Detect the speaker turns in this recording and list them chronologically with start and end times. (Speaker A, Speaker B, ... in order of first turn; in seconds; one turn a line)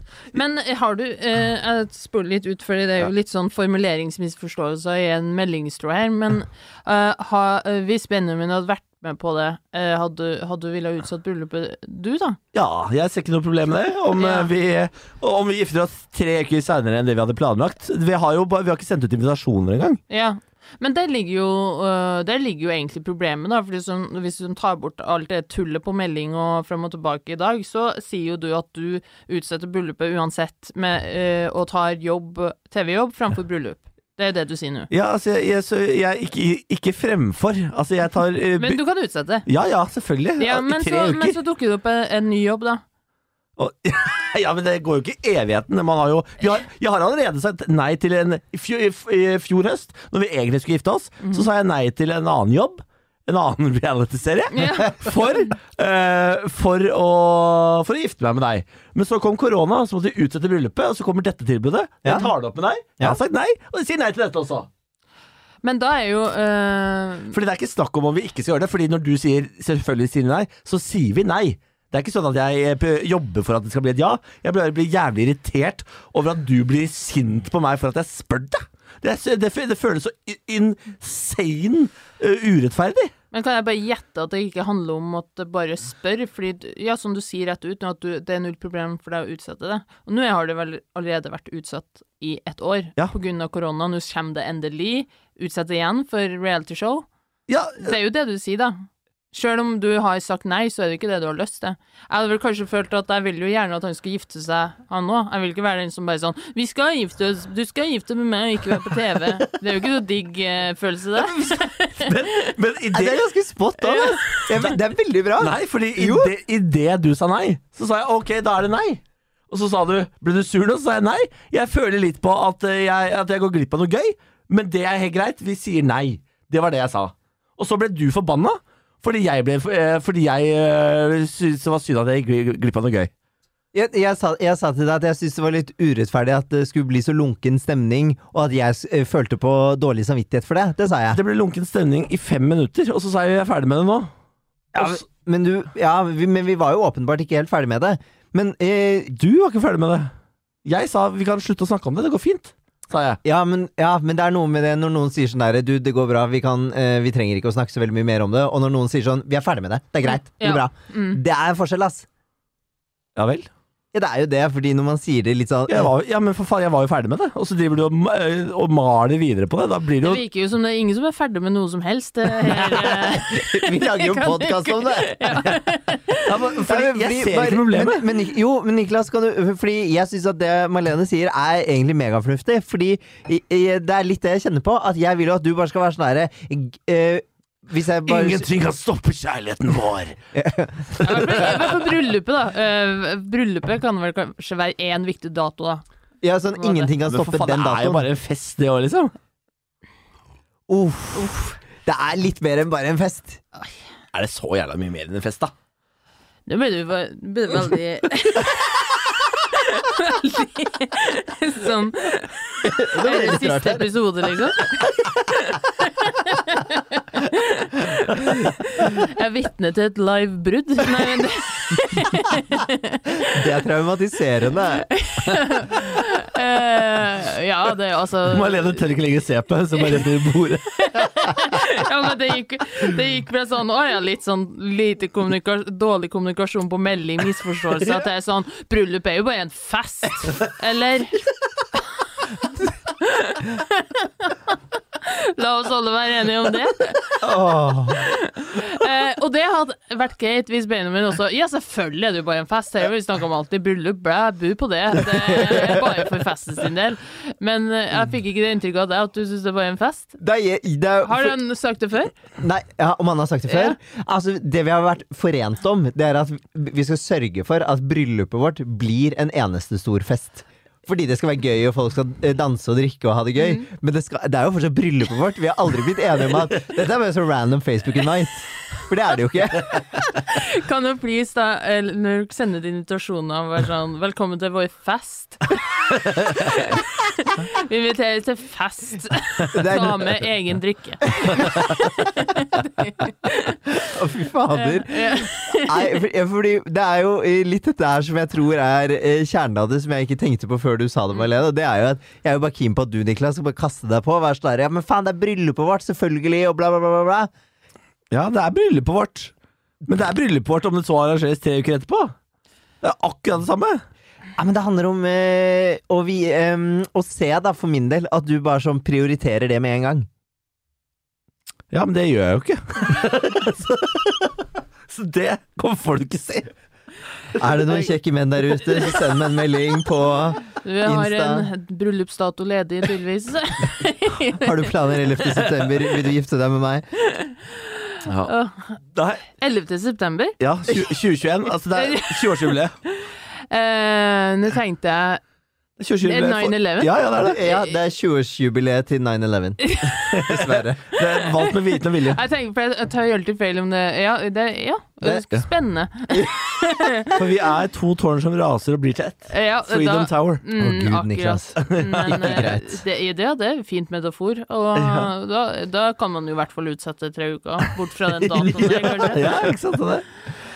Speaker A: 0.3-12.4
Speaker B: 12.5-20.0
Speaker A: 14.2-14.5
Speaker A: 20.1-34.9
Speaker B: 34.9-38.8
Speaker A: 38.6-39.5
Speaker B: 39.4-41.4
Speaker A: 40.4-42.8
Speaker B: 43.6-64.7
Speaker A: 54.5-55.4
Speaker A: 65.6-67.3
Speaker B: 67.3-83.1
Speaker A: 83.3-97.1
Speaker B: 97.5-97.9
Speaker A: 97.8-112.5
Speaker B: 111.2-113.2
Speaker C: 112.9-116.3
Speaker A: 113.8-114.8
Speaker B: 115.4-133.1
Speaker C: 133.7-141.2
Speaker B: 141.1-144.1
Speaker C: 144.7-149.1
Speaker B: 144.7-145.0
Speaker B: 149.1-150.1
Speaker B: 150.6-153.2
Speaker C: 153.2-162.1
Speaker A: 160.0-161.2
Speaker B: 163.2-163.5
Speaker C: 163.9-165.9
Speaker B: 165.7-170.2
Speaker A: 170.0-176.3
Speaker C: 172.7-175.4
Speaker B: 176.2-178.1
Speaker C: 176.6-188.5
Speaker B: 188.0-190.2
Speaker C: 190.3-191.4
Speaker B: 190.9-191.9
Speaker A: 191.0-195.8
Speaker C: 196.2-198.0
Speaker A: 196.6-196.9
Speaker B: 197.0-199.1
Speaker C: 200.7-203.4
Speaker B: 204.1-205.5
Speaker A: 206.5-223.4
Speaker C: 212.7-213.9
Speaker C: 223.3-224.9
Speaker A: 224.9-228.8
Speaker B: 228.3-231.1
Speaker A: 229.8-230.1
Speaker A: 230.8-241.2
Speaker A: 243.0-247.3
Speaker C: 247.2-248.1
Speaker A: 247.9-260.2
Speaker C: 255.3-255.6
Speaker C: 260.2-261.4
Speaker A: 261.0-262.1
Speaker C: 262.4-279.9
Speaker A: 263.5-263.8
Speaker A: 280.1-293.7
Speaker C: 289.5-290.0
Speaker C: 293.9-307.3
Speaker A: 294.5-296.0
Speaker B: 308.1-309.3
Speaker B: 309.9-312.1
Speaker B: 312.8-313.8
Speaker C: 314.4-320.1
Speaker B: 321.7-326.5
Speaker C: 327.4-331.5
Speaker A: 330.6-334.5
Speaker C: 334.3-336.9
Speaker B: 335.3-335.6
Speaker A: 337.1-337.3
Speaker B: 338.1-338.3
Speaker A: 338.2-338.8
Speaker B: 338.9-339.2
Speaker A: 339.4-340.4
Speaker B: 340.4-342.8
Speaker A: 341.7-345.2
Speaker B: 345.8-347.4
Speaker A: 346.0-346.9
Speaker C: 347.2-350.8
Speaker A: 347.4-347.7
Speaker A: 349.6-350.1
Speaker B: 350.1-352.2
Speaker A: 350.9-351.6
Speaker A: 352.1-357.2
Speaker B: 357.1-360.4
Speaker A: 359.3-369.4
Speaker C: 360.6-362.8
Speaker B: 361.6-362.4
Speaker B: 364.7-365.1
Speaker B: 368.3-370.1